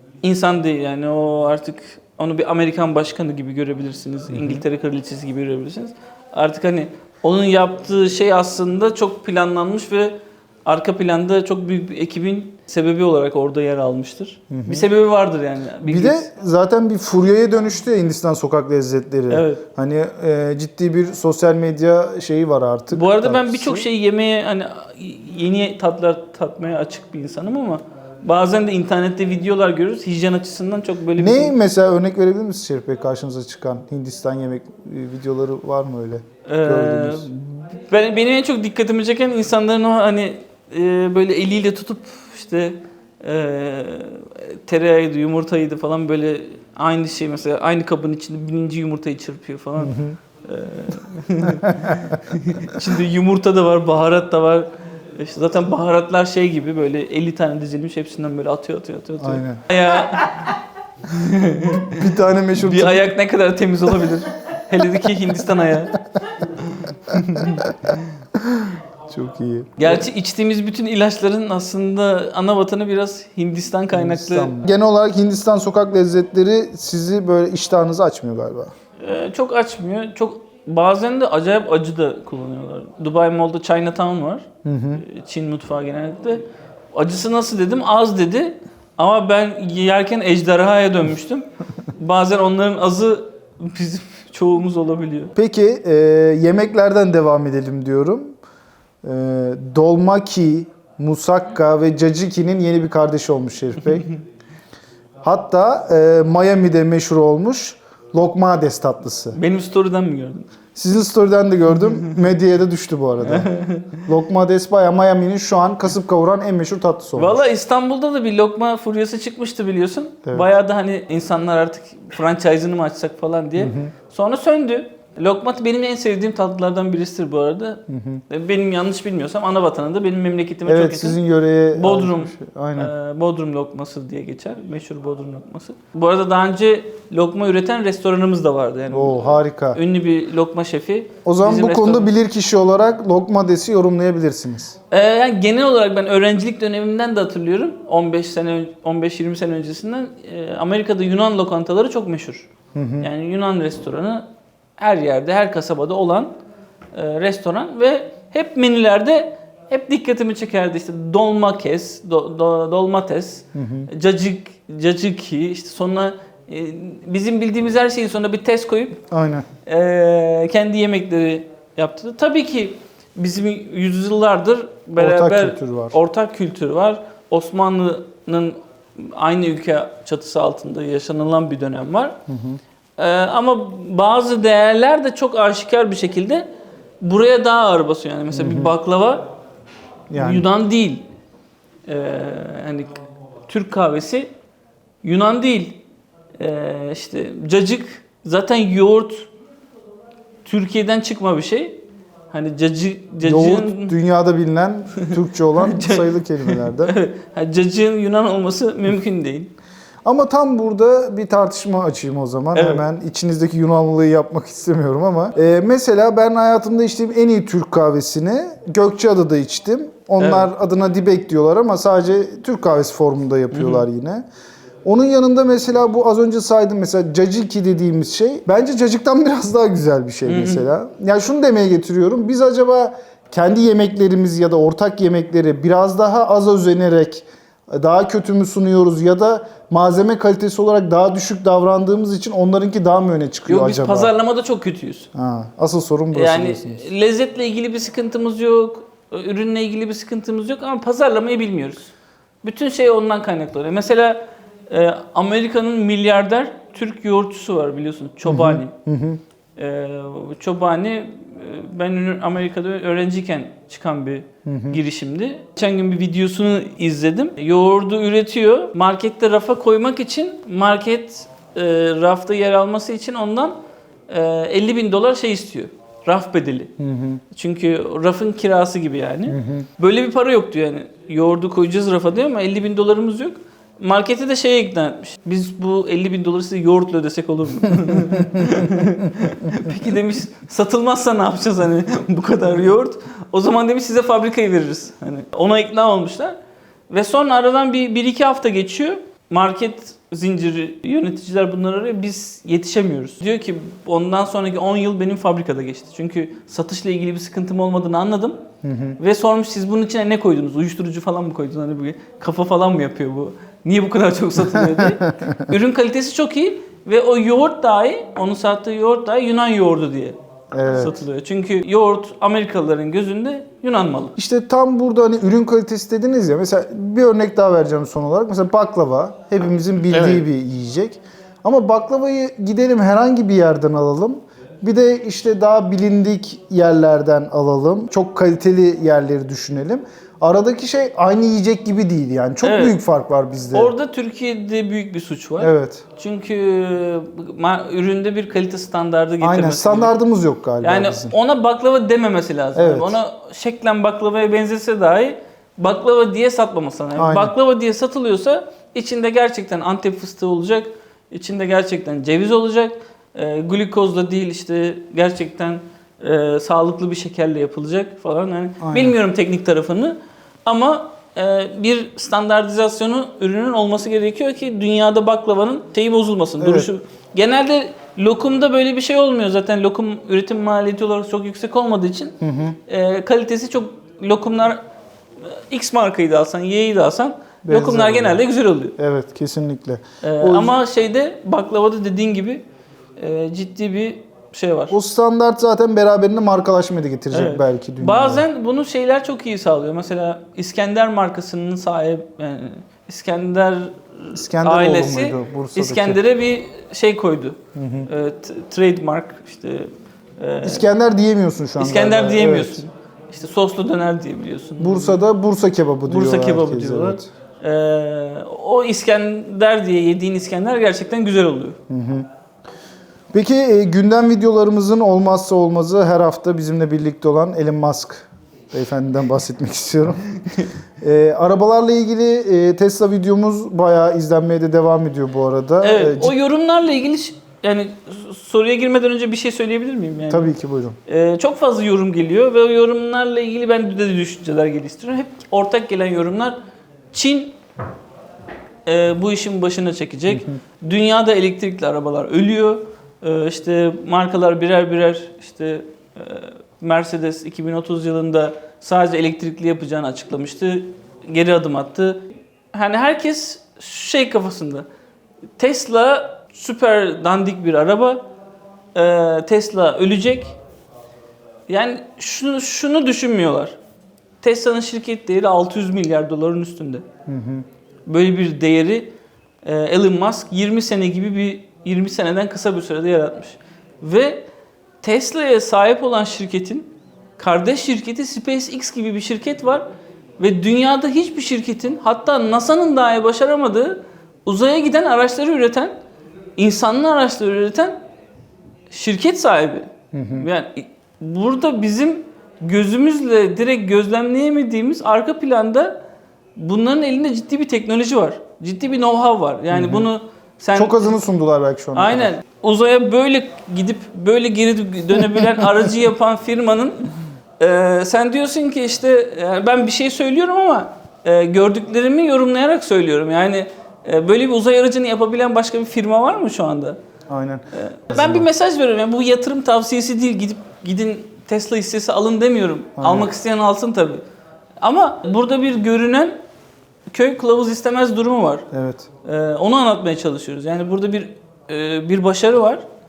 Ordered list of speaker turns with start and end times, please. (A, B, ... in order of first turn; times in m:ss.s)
0:00.2-0:16.3 A
0:04.3-0:04.6 B
0:14.5-0:14.9 B
0:15.8-0:23.9 B
0:19.3-0:19.6 A
0:22.9-0:31.6 A
0:31.2-0:37.5 B
0:36.5-1:00.5 A
0:49.8-0:50.2 B
0:51.6-0:52.0 B
0:59.2-0:59.6 B
1:01.0-1:02.0 A
1:01.7-1:03.1 B
1:02.6-1:08.0 A
1:07.1-1:10.0 B
1:09.8-1:14.6 A
1:13.9-1:18.7 B
1:19.0-1:24.5 A
1:24.6-1:25.0 B
1:25.0-1:35.3 A
1:35.4-1:38.4 B
1:39.0-1:44.1 B
1:45.2-1:49.4 B
1:49.4-1:50.5 A
1:50.8-1:57.4 B
1:53.2-1:54.0 A
1:57.2-2:11.2 A
2:03.6-2:03.9 B
2:07.9-2:08.2 B
2:10.7-2:12.9 B
2:11.7-2:22.1 A
2:18.9-2:19.8 B
2:21.2-2:24.8 B
2:24.9-2:34.2 A
2:32.8-2:33.1 B
2:34.8-2:36.3 A
2:36.9-2:49.0 A
2:43.6-2:43.9 B
2:49.1-2:49.5 B
2:49.7-3:02.2 A
2:55.0-2:56.0 B
3:02.3-3:02.6 B
3:03.0-3:06.5 A
3:07.0-3:09.3 A
3:08.3-3:08.7 B
3:10.1-3:10.5 B
3:10.2-3:11.0 A
3:11.9-3:12.9 A
3:13.5-3:14.3 A
3:15.0-3:15.8 A
3:16.4-3:19.3 A
3:20.4-3:24.0 A
3:23.2-3:26.9 B
3:25.0-3:29.5 A
3:30.0-3:44.2 B
3:32.6-3:32.8 A
3:40.2-3:40.5 A
3:43.5-3:43.8 A
3:44.8-4:04.1 B
3:50.2-3:50.7 A
4:03.5-4:05.1 A
4:05.1-4:06.8 B
4:06.1-4:11.9 A
4:12.4-4:18.7 A
4:18.3-4:19.2 B
4:19.6-4:33.6 A
4:24.5-4:24.8 B
4:34.1-4:36.7 A
4:36.8-4:37.2 B
4:37.3-4:56.4 A
4:39.3-4:39.7 B
4:47.9-4:48.9 B
4:56.9-5:08.4 A
5:08.6-5:09.0 B
5:09.0-5:24.2 A
5:14.6-5:15.4 B
5:20.5-5:20.9 B
5:24.2-5:43.7 B
5:29.9-5:30.2 A
5:42.4-5:42.8 A
5:43.5-5:50.0 A
5:45.4-5:45.8 B
5:49.2-5:51.2 B
5:50.6-6:24.6 A
5:52.6-5:53.0 B
5:57.0-5:57.3 B
6:08.6-6:09.0 B
6:16.4-6:16.7 B
6:22.2-6:22.6 B
6:25.2-6:28.8 A
6:27.4-6:28.2 B
6:28.8-6:30.6 B
6:30.0-6:32.4 A
6:33.0-6:34.8 A
6:34.7-6:38.2 B
6:37.1-6:50.6 A
6:44.2-6:46.0 B
6:47.6-6:47.9 B
6:50.4-6:52.6 B
6:51.6-6:55.0 A
6:54.6-6:57.1 B
6:55.9-7:01.6 A
7:01.7-7:02.1 B
7:03.1-7:10.1 B
7:10.8-7:16.1 B
7:15.6-7:20.3 A
7:20.1-7:20.8 B
7:20.9-7:26.4 A
7:26.9-7:27.4 A
7:28.7-7:44.7 A
7:30.1-7:30.4 B
7:45.4-7:48.0 A
7:48.8-7:50.4 A
7:51.5-7:53.6 A
7:54.2-7:56.8 A
7:57.1-7:57.4 B
7:57.9-8:04.3 A
8:04.8-8:09.7 A
8:10.2-8:15.7 A
8:16.4-8:17.8 A
8:18.7-8:25.8 A
8:19.9-8:20.3 B
8:26.4-8:31.0 A
8:29.5-8:29.9 B
8:30.6-8:32.1 B
8:31.8-8:36.9 A
8:37.4-8:46.8 A
8:47.1-8:48.3 B
8:47.5-8:54.0 A
8:52.8-8:53.1 B
8:54.6-8:56.2 A
8:56.9-8:58.5 A
8:58.5-8:58.9 B
8:59.0-9:02.6 A